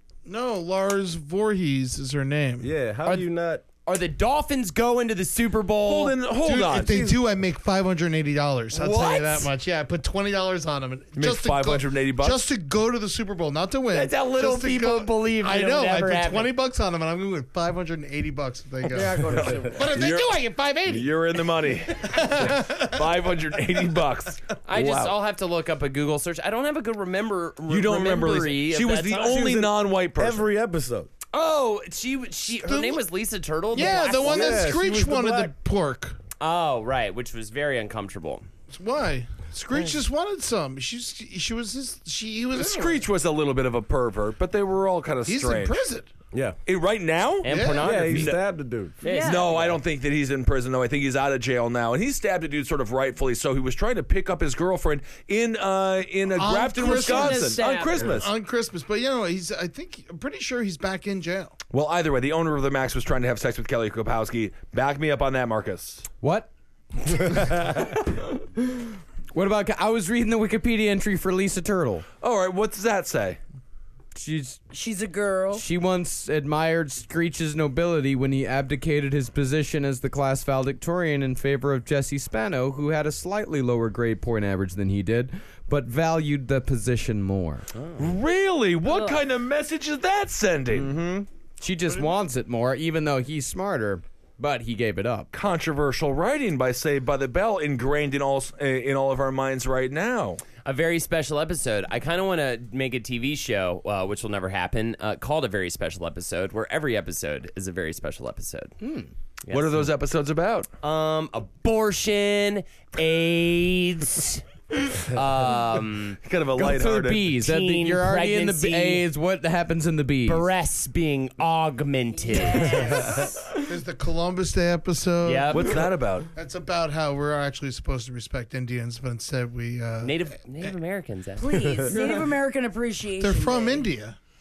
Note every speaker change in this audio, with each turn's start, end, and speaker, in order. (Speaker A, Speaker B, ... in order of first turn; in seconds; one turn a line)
Speaker A: 0.2-2.7
Speaker B: 2.6-3.6
Speaker C: 3.9-6.2
Speaker D: 5.8-7.1
Speaker A: 6.4-21.2
Speaker B: 6.8-7.2
Speaker C: 8.7-9.5
Speaker D: 11.2-12.4
Speaker C: 13.9-16.5
Speaker C: 18.8-19.9
Speaker D: 19.3-25.2
Speaker A: 22.0-23.1
Speaker C: 24.6-29.5
Speaker D: 27.7-30.4
Speaker B: 29.2-31.1
Speaker C: 31.3-34.7
Speaker A: 32.5-33.0
Speaker A: 33.7-36.2
Speaker B: 34.2-35.5
Speaker C: 36.4-38.4
Speaker A: 38.7-43.1
Speaker D: 42.5-45.8
Speaker A: 45.2-46.1
Speaker B: 46.3-46.6
Speaker D: 46.6-48.4
Speaker C: 47.4-48.4
Speaker A: 47.5-47.9
Speaker B: 47.8-49.0
Speaker E: 49.0-49.6
Speaker C: 49.0-49.8
Speaker D: 49.2-58.3
Speaker A: 56.3-61.6
Speaker E: 56.7-58.1
Speaker D: 61.7-66.0
Speaker F: 66.2-66.5
Speaker F: 67.2-72.0
Speaker D: 72.2-73.4
Speaker F: 74.1-74.6
Speaker E: 74.7-75.6
Speaker F: 75.5-87.7
Speaker D: 88.0-90.9
Speaker E: 88.8-89.2
Speaker F: 90.7-95.3
Speaker D: 95.3-100.4
Speaker C: 100.6-108.7
Speaker F: 108.8-109.1
Speaker C: 109.4-109.9
Speaker D: 109.5-110.7
Speaker C: 110.8-114.4
Speaker C: 115.0-116.2
Speaker D: 116.2-117.3
Speaker F: 116.5-120.4
Speaker C: 117.4-119.0
Speaker C: 120.2-123.3
Speaker E: 122.2-123.5
Speaker A: 123.6-130.2
Speaker C: 125.2-125.8
Speaker D: 125.5-126.3
Speaker C: 130.0-131.9
Speaker E: 131.4-133.9
Speaker A: 133.2-134.2